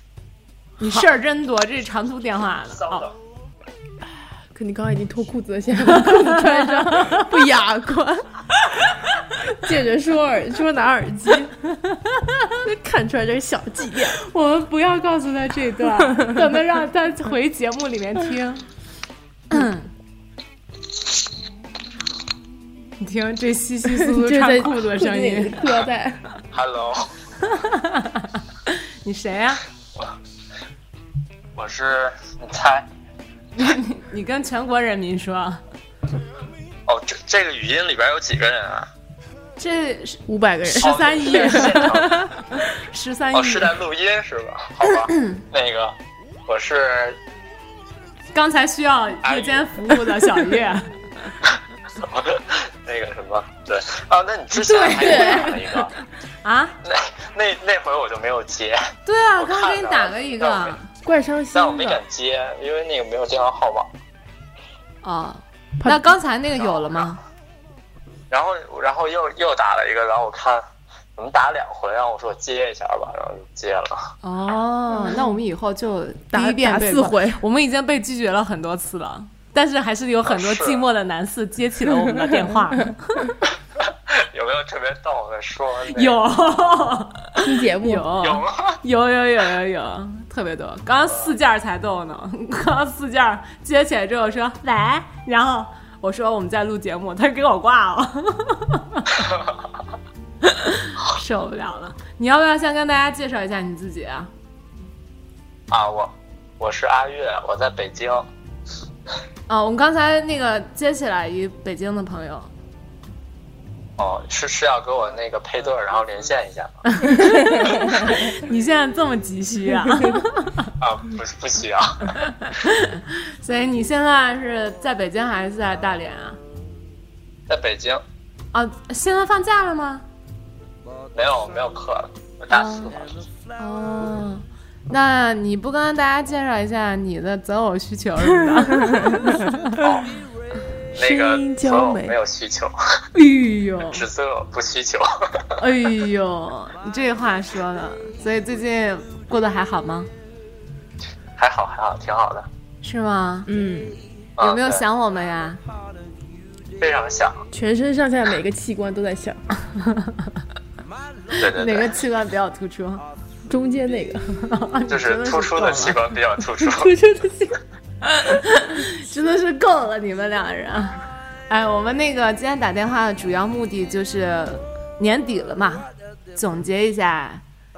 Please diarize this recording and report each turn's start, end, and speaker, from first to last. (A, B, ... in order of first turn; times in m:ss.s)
0:00.8-0:03.1 A
0:02.8-0:03.1 B
0:04.5-0:08.3 C
0:06.5-0:07.2 A
0:09.4-0:11.5 C
0:11.9-0:12.5 A
0:12.6-0:14.2 C
0:14.2-0:18.6 A
0:16.0-0:16.5 C
0:19.5-0:19.9 A
0:23.0-0:25.8 A
0:23.9-0:26.2 C
0:26.5-0:27.1 B
0:27.5-0:29.6 A
0:31.6-0:32.9 B
0:33.6-0:35.6 A
0:36.9-0:38.9 B
0:39.6-0:43.8 A
0:40.3-0:42.1 C
0:40.8-0:42.2 B
0:43.3-0:46.0 B
0:45.1-0:45.4 A
0:46.5-0:47.2 B
0:48.3-0:51.3 A
0:49.2-0:49.7 B
0:52.0-0:55.9 B
0:54.5-0:55.8 A
0:55.0-0:55.6 C
0:56.4-0:56.8 A
0:56.8-0:58.8 B
0:59.1-1:00.9 A
0:59.4-1:00.8 B
1:01.0-1:02.0 C
1:01.5-1:03.9 B
1:05.0-1:07.2 A
1:05.8-1:06.1 C
1:06.6-1:07.2 B
1:08.3-1:10.6 B
1:11.2-1:14.1 B
1:14.2-1:23.3 A
1:14.9-1:15.4 C
1:16.3-1:17.4 C
1:20.2-1:20.8 B
1:22.1-1:22.7 C
1:23.8-1:26.2 B
1:25.9-1:39.2 A
1:27.4-1:28.1 C
1:28.2-1:28.8 B
1:40.4-1:44.3 A
1:45.7-1:48.3 B
1:49.5-1:52.5 A
1:54.0-1:56.8 B
1:56.9-2:00.7 A
1:59.8-2:00.2 C
2:00.8-2:02.0 B
2:02.3-2:06.4 A
2:07.5-2:08.0 B
2:08.5-2:10.0 A
2:11.1-2:13.2 B
2:12.5-2:12.9 A
2:13.6-2:19.7 A
2:18.8-2:19.4 C
2:19.8-2:20.1 B
2:20.9-2:23.0 B
2:21.0-2:22.2 C
2:23.1-2:24.0 A
2:23.9-2:25.1 B
2:25.6-2:30.1 A
2:31.4-2:32.5 B
2:32.8-2:33.5 A
2:33.5-2:34.0 C
2:34.4-2:34.8 B
2:34.4-2:35.6 A
2:36.8-2:37.4 B
2:37.5-2:39.4 C
2:39.8-2:40.2 A
2:41.4-2:42.0 B
2:41.5-2:43.0 A
2:43.5-2:44.4 C
2:44.4-2:46.0 A
2:44.9-2:46.9 B
2:46.6-2:47.6 C
2:48.0-2:57.4 A